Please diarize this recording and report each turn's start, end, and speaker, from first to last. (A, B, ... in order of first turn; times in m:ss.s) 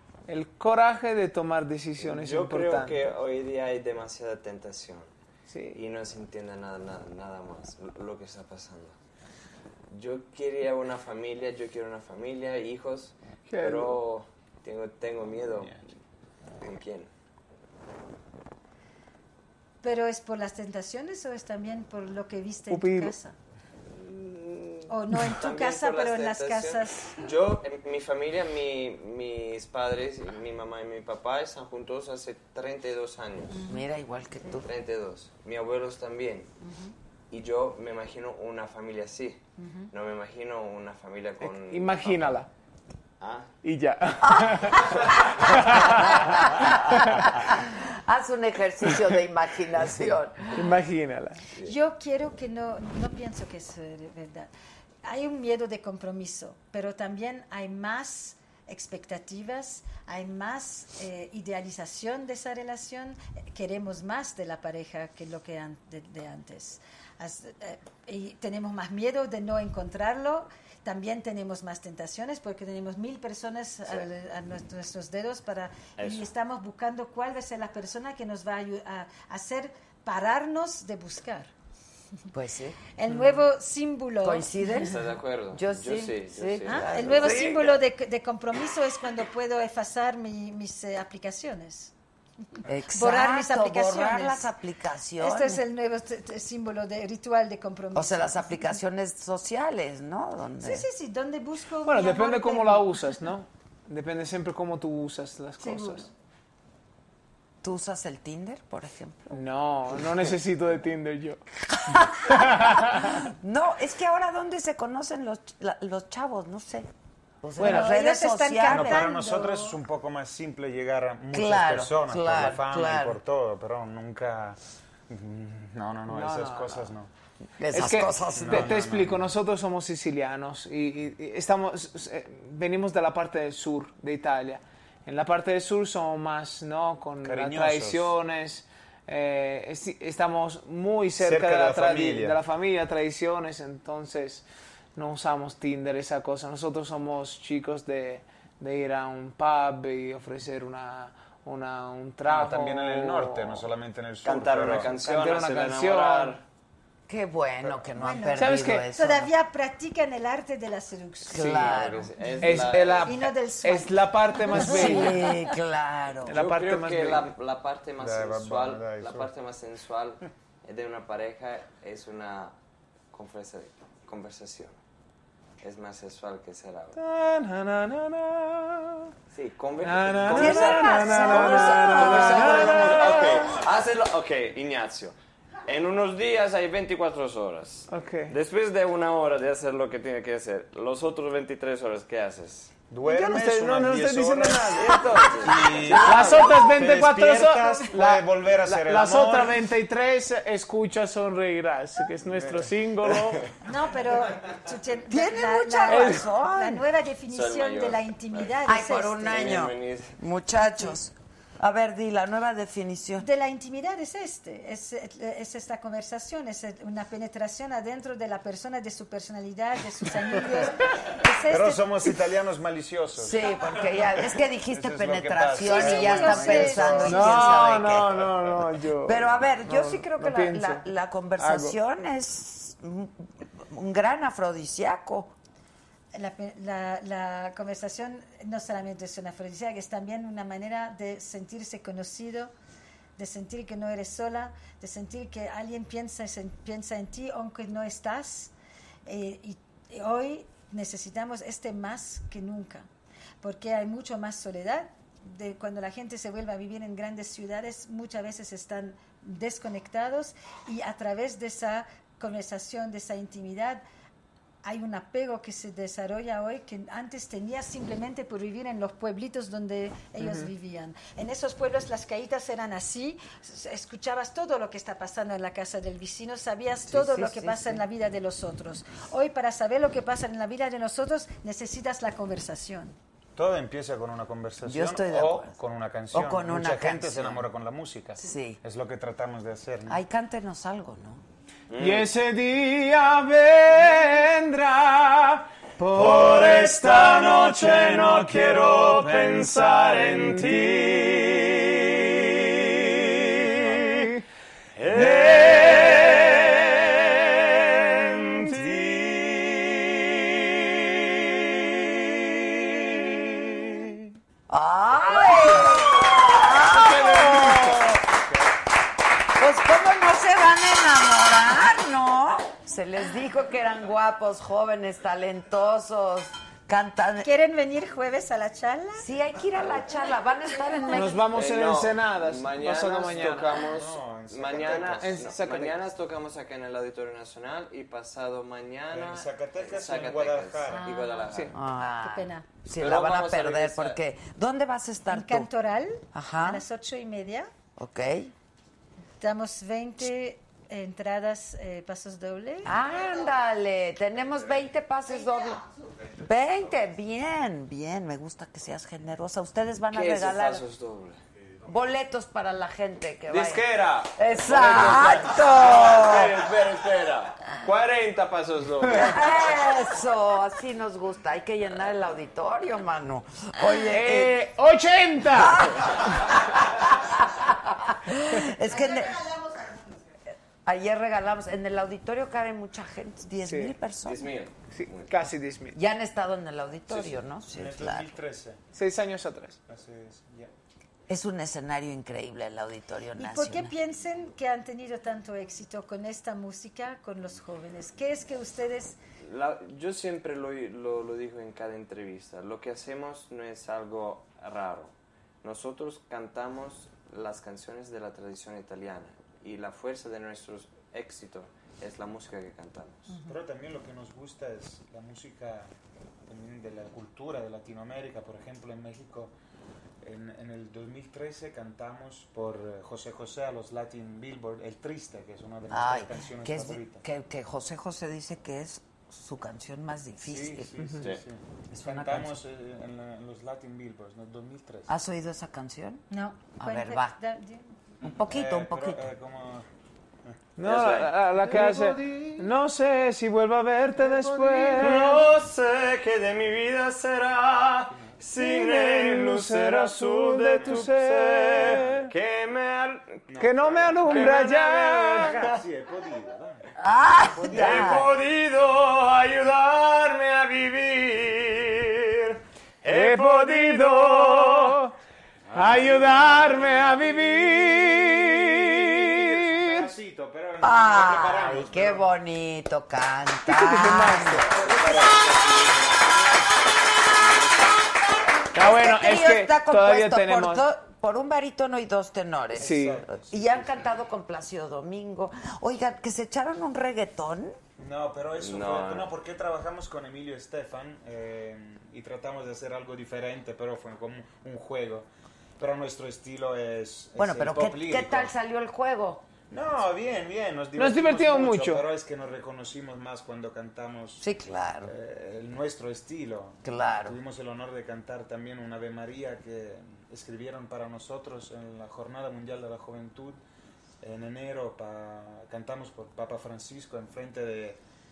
0:00.3-0:03.0 A
0:02.0-0:05.1 B
0:05.5-0:05.8 A
0:05.7-0:09.0 B
0:09.9-0:15.8 B
0:13.5-0:14.0 A
0:16.6-0:17.1 B
0:19.8-0:23.4 C
0:22.7-0:23.1 A
0:23.9-0:33.6 B
0:24.9-0:27.2 C
0:33.5-0:33.8 C
0:33.7-0:34.7 D
0:34.6-0:36.5 B
0:36.6-0:36.9 C
0:37.3-0:42.4 B
0:39.6-0:39.9 C
0:41.4-0:42.5 A
0:43.2-0:43.5 B
0:43.6-0:47.4 A
0:44.2-0:44.7 D
0:44.8-0:45.3 B
0:45.5-0:50.7 D
0:50.5-0:51.4 A
0:51.6-0:54.5 C
0:55.0-1:21.5 C
1:16.0-1:16.3 B
1:22.3-1:22.8 D
1:23.0-1:24.7 C
1:24.2-1:27.6 D
1:24.8-1:27.7 B
1:26.6-1:31.9 C
1:32.6-1:34.5 C
1:32.6-1:35.6 D
1:35.2-1:38.6 C
1:37.9-1:40.9 D
1:40.6-1:43.1 C
1:41.8-1:46.1 A
1:45.6-1:46.1 C
1:47.6-1:49.4 D
1:49.3-1:51.4 A
1:51.8-1:56.9 D
1:52.3-1:53.2 A
1:57.4-1:59.1 D
1:57.6-1:59.8 C
1:57.6-1:57.9 A
1:58.7-2:07.1 E
2:01.3-2:03.2 D
2:06.1-2:07.0 A
2:07.6-2:08.8 D
2:07.7-2:33.7 A
2:08.4-2:09.3 E
2:17.2-2:18.1 E
2:21.2-2:22.4 E
2:32.3-2:34.9 E
2:34.2-2:36.4 B
2:34.8-2:36.4 A
2:37.1-2:39.3 D
2:38.0-2:41.6 C
2:38.3-2:38.9 A
2:41.3-2:42.1 D
2:41.3-2:41.8 A
2:41.5-2:43.2 B
2:42.4-2:45.2 A
2:43.0-2:45.5 C
2:44.5-2:46.4 D
2:46.2-2:47.3 A
2:46.3-2:52.5 B
2:48.0-2:49.3 E
2:53.1-2:54.8 B
2:55.6-2:57.0 B
2:57.0-2:59.1 A
2:59.3-3:05.1 B
2:59.8-3:03.5 A
3:00.3-3:03.2 D
3:05.6-3:12.7 B
3:07.9-3:08.3 A
3:12.9-3:14.8 E
3:13.0-3:23.5 A
3:14.7-3:16.7 B
3:15.4-3:19.6 E
3:22.2-3:22.7 E
3:23.1-3:23.4 B
3:23.6-3:29.6 C
3:25.1-3:26.8 D
3:25.9-3:26.2 A
3:27.3-3:28.7 B
3:28.6-3:33.3 D
3:29.2-3:30.2 B
3:33.2-3:42.0 C
3:41.5-3:43.4 E
3:43.2-3:48.3 D
3:44.7-3:47.6 E
3:45.6-3:47.4 C
3:47.0-3:51.8 A
3:49.0-3:55.3 D
3:56.1-4:02.5 C
4:03.2-4:08.5 C
4:09.0-4:12.8 C
4:13.4-4:23.8 C
4:24.6-4:43.0 C
4:30.2-4:30.5 A
4:36.9-4:37.8 D
4:43.4-4:50.0 E
4:44.6-4:45.6 D
4:46.1-4:47.4 D
4:48.2-4:48.6 D
4:49.9-4:51.2 D
4:51.7-4:52.1 B
4:51.8-5:00.7 A
4:56.0-4:56.3 E
4:56.3-5:03.4 B
5:03.0-5:04.2 A
5:04.8-5:07.0 B
5:04.9-5:08.8 A
5:07.7-5:10.4 B
5:14.5-5:18.0 D
5:16.6-5:17.9 A
5:19.4-5:27.3 D
5:27.2-5:29.1 C
5:29.0-5:31.2 D
5:30.9-5:33.7 A
5:31.3-5:41.5 B
5:33.8-5:35.2 E
5:34.9-5:35.8 A
5:38.9-5:40.9 E
5:40.7-5:41.2 C
5:41.5-5:45.5 D
5:42.0-5:42.4 C
5:42.8-5:44.0 B
5:45.1-5:47.5 C
5:46.1-5:46.6 D
5:47.8-5:48.3 D
5:49.2-5:52.8 C
5:52.6-5:55.7 D
5:56.2-6:00.6 D
5:59.9-6:01.2 B
6:01.6-6:06.4 D
6:03.3-6:09.5 B
6:08.9-6:14.4 D
6:13.9-6:16.0 A
6:15.3-6:19.6 D
6:20.6-6:24.3 D
6:23.4-6:23.7 A
6:24.0-6:25.1 B
6:24.7-6:25.8 A
6:25.7-6:28.1 D
6:27.5-6:28.6 E
6:28.7-6:29.6 A
6:29.7-6:30.5 E
6:31.1-6:33.7 D
6:33.2-6:39.0 C
6:39.2-6:53.2 B
6:53.2-6:55.7 E
6:56.3-6:59.3 E
7:00.0-7:07.0 E
7:05.7-7:10.8 D
7:10.2-7:14.9 E
7:10.8-7:11.0 A
7:11.7-7:12.4 D
7:14.9-7:16.0 D
7:16.1-7:17.7 C
7:16.6-7:17.2 D
7:18.0-7:19.1 D
7:18.2-7:19.6 E
7:20.6-7:25.2 A
7:20.6-7:21.6 B
7:21.4-7:22.5 E
7:24.0-7:25.1 E
7:24.8-7:33.3 B
7:28.3-7:32.1 A
7:30.5-7:30.9 E
7:33.3-7:34.5 E
7:33.4-7:35.4 A
7:34.0-7:35.6 B
7:35.1-7:36.6 E
7:36.8-7:38.1 D
7:37.3-7:38.1 E
7:37.4-7:44.8 B
7:42.8-7:44.9 A
7:45.5-7:46.9 E
7:45.5-7:49.9 A
7:48.9-7:52.0 E
7:50.6-7:54.4 D
7:53.5-7:54.8 A
7:54.5-7:56.3 E
7:57.2-7:57.7 E
7:58.5-8:07.6 D
7:58.5-8:00.6 A
8:02.5-8:03.8 E
8:02.6-8:03.0 A
8:07.8-8:15.1 E
8:08.4-8:09.1 B
8:15.6-8:18.3 E
8:17.2-8:19.2 D
8:19.5-8:24.2 E
8:20.8-8:21.8 A
8:24.2-8:24.9 D
8:24.8-8:33.4 E
8:26.6-8:27.2 D
8:34.0-8:37.8 E